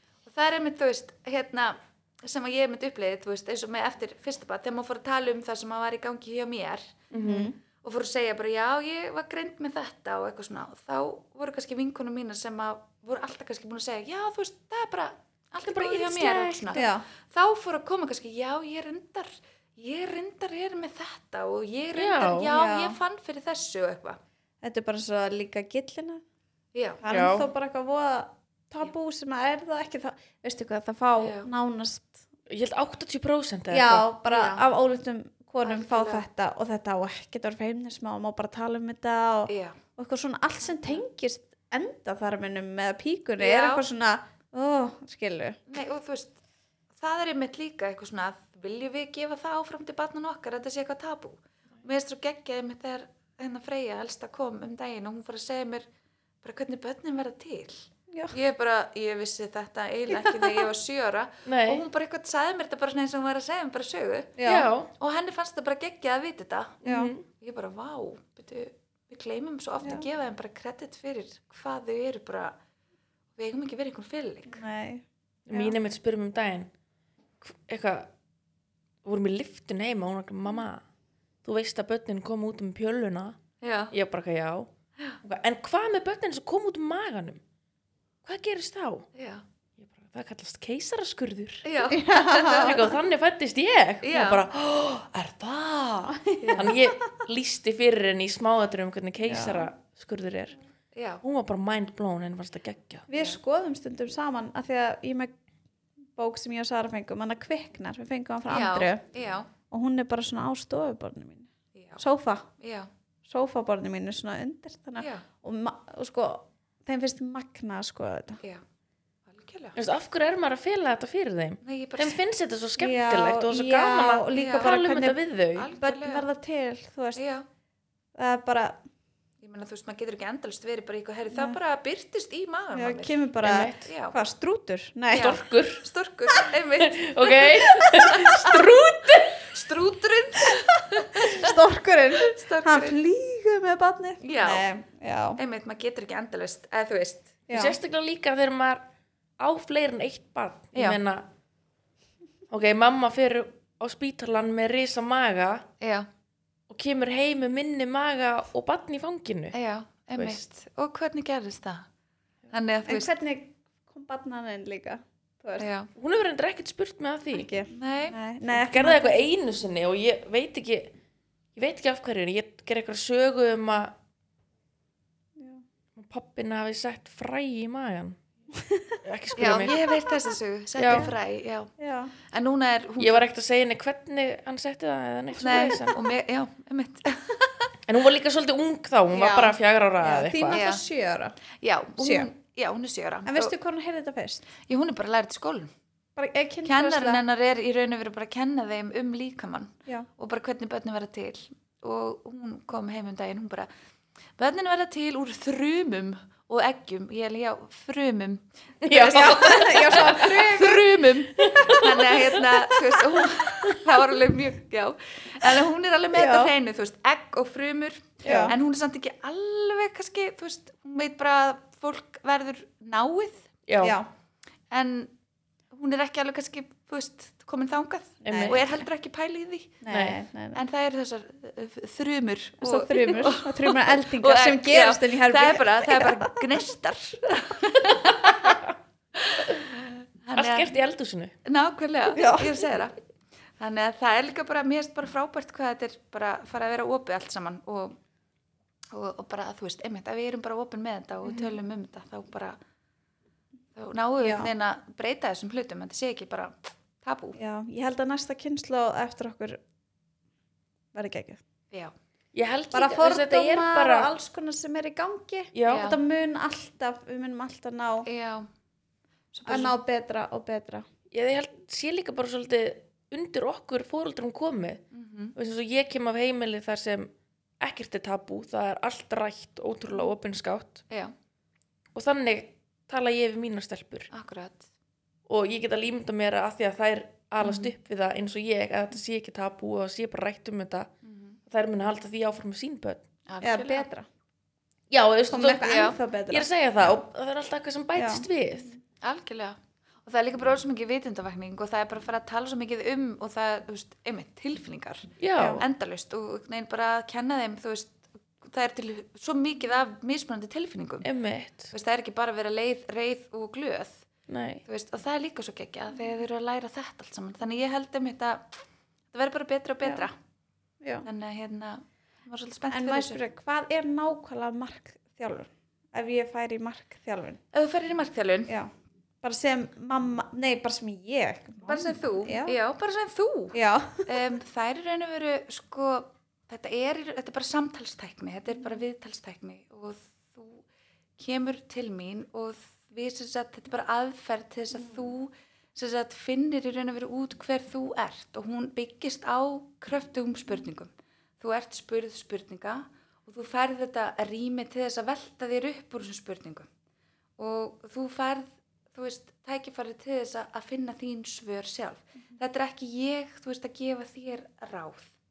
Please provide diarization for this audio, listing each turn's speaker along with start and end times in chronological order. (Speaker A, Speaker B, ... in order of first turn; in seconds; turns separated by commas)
Speaker A: 0.2-7.0, Speaker B: 7.1-7.5, Speaker C: 7.1-7.6, Speaker A: 7.8-24.2, Speaker B: 15.6-16.8, Speaker C: 16.7-17.1, Speaker B: 21.9-22.5, Speaker C: 22.5-23.0, Speaker C: 24.6-26.2, Speaker A: 26.7-27.0, Speaker C: 27.0-32.2, Speaker B: 27.1-27.5, Speaker A: 31.2-31.5, Speaker B: 32.5-34.1, Speaker C: 33.7-45.6, Speaker A: 34.3-34.6, Speaker A: 35.6-36.2, Speaker A: 39.5-39.8, Speaker A: 40.6-41.0, Speaker A: 43.4-43.8, Speaker A: 45.7-46.4, Speaker A: 46.9-55.9, Speaker A: 56.4-64.4, Speaker C: 58.1-58.4, Speaker C: 60.1-60.6, Speaker B: 61.5-61.8, Speaker C: 64.4-64.7, Speaker B: 64.5-64.9, Speaker A: 65.0-72.6, Speaker B: 66.8-67.3, Speaker C: 66.8-67.1, Speaker A: 73.4-74.6, Speaker C: 74.5-75.7, Speaker B: 75.5-76.7, Speaker B: 77.4-78.1, Speaker B: 79.0-80.8, Speaker B: 81.4-83.4, Speaker A: 83.6-83.9, Speaker B: 83.9-84.7, Speaker B: 85.2-87.4, Speaker B: 88.2-89.1, Speaker A: 89.1-89.4, Speaker B: 89.8-91.7, Speaker A: 91.6-93.0, Speaker C: 91.9-92.8, Speaker B: 92.4-100.6, Speaker A: 94.0-94.5, Speaker C: 96.2-96.8, Speaker A: 96.4-96.8, Speaker C: 99.3-99.7, Speaker A: 100.9-101.2, Speaker B: 101.2-103.1, Speaker C: 103.1-105.3, Speaker A: 103.1-103.4, Speaker C: 106.2-109.0, Speaker A: 108.5-109.5, Speaker C: 109.7-112.5, Speaker A: 111.7-112.0, Speaker A: 112.6-112.9, Speaker C: 113.3-118.4, Speaker A: 115.0-115.2, Speaker A: 119.3-119.8, Speaker B: 119.8-125.7, Speaker A: 121.6-122.2, Speaker C: 122.8-125.2, Speaker A: 124.3-124.8, Speaker A: 125.5-126.3, Speaker C: 125.8-127.2, Speaker A: 127.2-127.5, Speaker C: 128.2-128.8, Speaker A: 129.4-133.2, Speaker C: 131.3-131.6, Speaker C: 132.7-135.4, Speaker B: 133.4-133.9, Speaker A: 133.8-134.2, Speaker B: 135.1-135.8, Speaker A: 135.1-138.6, Speaker B: 136.8-139.6, Speaker C: 137.8-138.2, Speaker A: 139.4-141.5, Speaker C: 141.1-145.4, Speaker A: 142.2-143.0, Speaker A: 144.2-144.7, Speaker A: 145.4-147.4, Speaker C: 147.5-147.8, Speaker B: 147.5-148.8, Speaker B: 149.4-151.3, Speaker A: 150.7-151.0, Speaker B: 152.5-155.7, Speaker A: 155.8-156.1, Speaker B: 156.7-159.6, Speaker A: 159.5-161.9, Speaker B: 160.1-160.4, Speaker A: 162.5-163.2, Speaker C: 162.9-165.7, Speaker A: 165.6-165.9, Speaker B: 165.9-167.5, Speaker C: 167.3-169.2, Speaker A: 167.7-168.2, Speaker B: 168.5-170.9, Speaker B: 171.6-173.9, Speaker C: 175.4-175.6, Speaker B: 175.9-178.2, Speaker C: 178.6-179.0, Speaker B: 179.0-179.8, Speaker A: 179.4-183.3, Speaker B: 180.8-181.1, Speaker C: 181.8-182.1, Speaker B: 183.0-186.0, Speaker A: 185.4-187.7, Speaker B: 187.9-190.6, Speaker C: 189.1-191.4, Speaker A: 190.5-190.8, Speaker A: 191.6-193.5, Speaker C: 192.0-192.3, Speaker C: 193.3-194.4, Speaker A: 194.7-195.7, Speaker C: 196.2-197.2, Speaker A: 196.7-203.7, Speaker A: 204.4-223.5, Speaker B: 208.8-210.7, Speaker C: 209.0-210.9, Speaker B: 211.4-213.8, Speaker C: 216.1-216.5, Speaker C: 218.2-218.6, Speaker B: 223.7-224.0, Speaker C: 223.8-224.1, Speaker A: 224.7-225.1, Speaker A: 225.7-229.8, Speaker B: 228.2-228.6, Speaker C: 228.2-228.8, Speaker C: 229.8-230.6, Speaker B: 229.9-230.2, Speaker A: 230.5-238.6, Speaker C: 232.6-236.4, Speaker A: 239.1-240.8, Speaker B: 240.3-241.3, Speaker A: 241.4-242.9, Speaker C: 242.1-242.6, Speaker A: 243.6-248.0, Speaker A: 248.9-252.6, Speaker A: 253.7-257.4, Speaker C: 254.2-254.5, Speaker C: 257.4-259.6, Speaker C: 260.9-261.4, Speaker B: 262.3-264.1, Speaker C: 262.7-268.1, Speaker B: 265.5-265.9, Speaker A: 265.7-266.0, Speaker A: 268.1-268.5, Speaker A: 269.3-269.8, Speaker C: 269.4-270.9, Speaker B: 271.1-274.8, Speaker A: 274.9-275.4, Speaker B: 275.4-280.8, Speaker B: 281.9-284.1, Speaker A: 284.1-284.7, Speaker B: 285.3-290.9, Speaker A: 287.4-287.7, Speaker A: 291.0-291.4, Speaker B: 291.5-293.0, Speaker A: 293.3-293.9, Speaker C: 293.4-294.1, Speaker B: 294.9-298.7, Speaker C: 295.3-296.5, Speaker A: 295.6-296.0, Speaker C: 297.9-298.3, Speaker A: 299.0-311.1, Speaker B: 305.2-305.6, Speaker C: 305.4-305.6, Speaker B: 311.0-311.7, Speaker A: 311.7-314.0, Speaker B: 314.3-314.6, Speaker A: 314.6-318.6, Speaker A: 319.1-320.1, Speaker A: 321.0-323.2, Speaker C: 322.7-327.4, Speaker A: 327.5-328.5, Speaker C: 329.2-332.6, Speaker A: 331.6-340.6, Speaker C: 333.5-334.1, Speaker A: 341.2-356.7, Speaker A: 357.4-365.1